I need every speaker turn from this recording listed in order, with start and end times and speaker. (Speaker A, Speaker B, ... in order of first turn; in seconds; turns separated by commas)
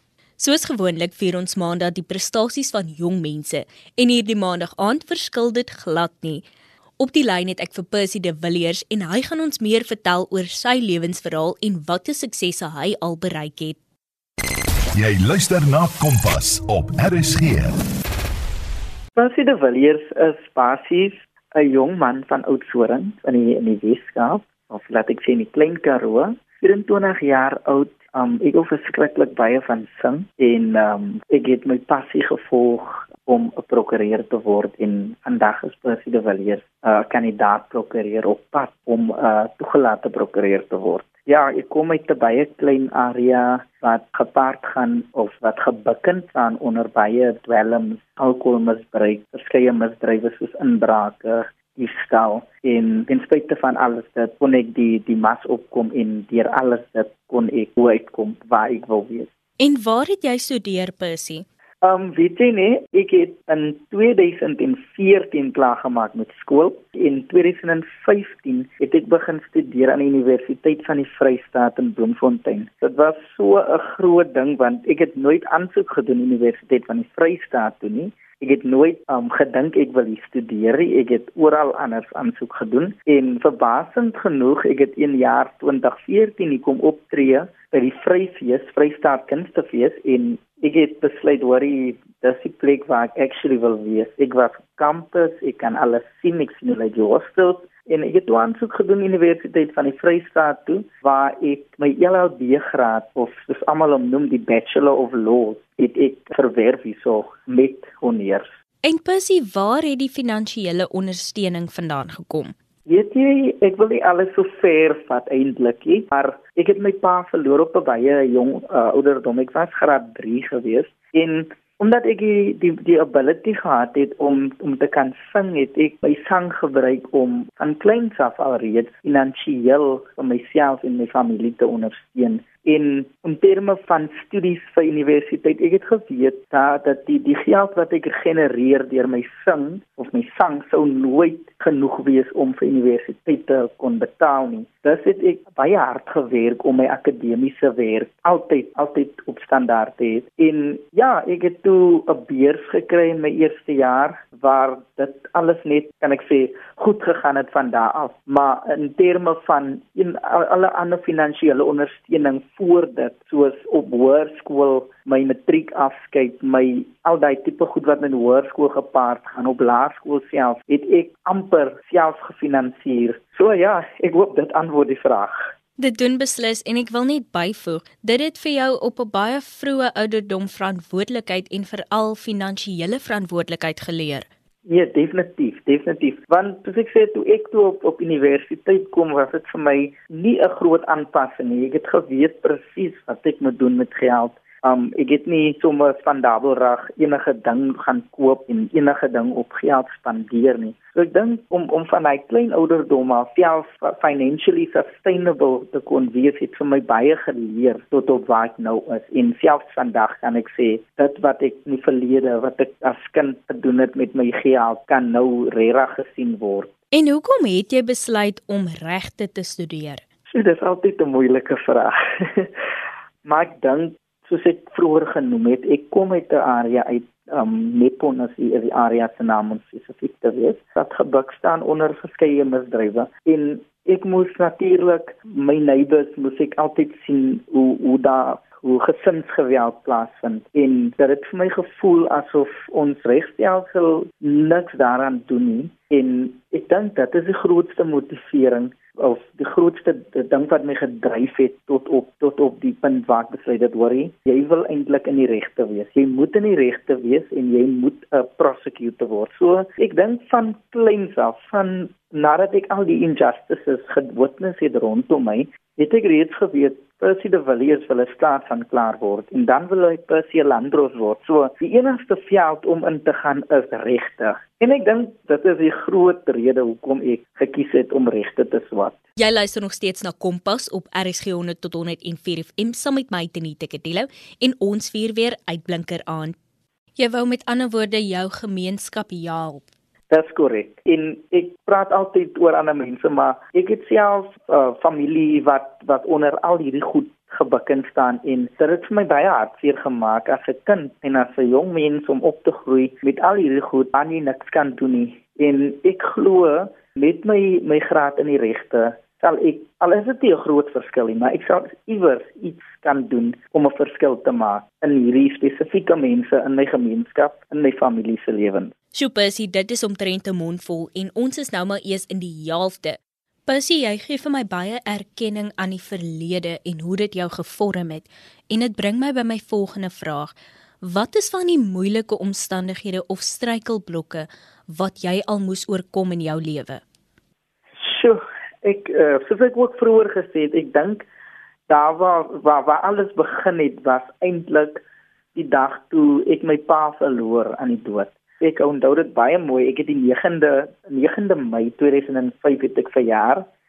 Speaker A: 0.4-6.5, Speaker A: 7.0-13.8, Speaker B: 14.9-17.8, Speaker C: 19.1-59.3, Speaker A: 59.6-61.4, Speaker C: 61.8-108.5, Speaker A: 108.8-112.5, Speaker C: 112.9-175.5, Speaker A: 175.8-184.2, Speaker C: 184.7-216.7, Speaker A: 216.9-220.0, Speaker C: 220.3-222.5, Speaker C: 223.2-279.0, Speaker A: 279.2-286.3, Speaker A: 287.0-289.6, Speaker C: 290.1-318.7, Speaker A: 318.9-336.8, Speaker C: 337.8-341.0, Speaker C: 341.7-344.8, Speaker C: 345.3-353.4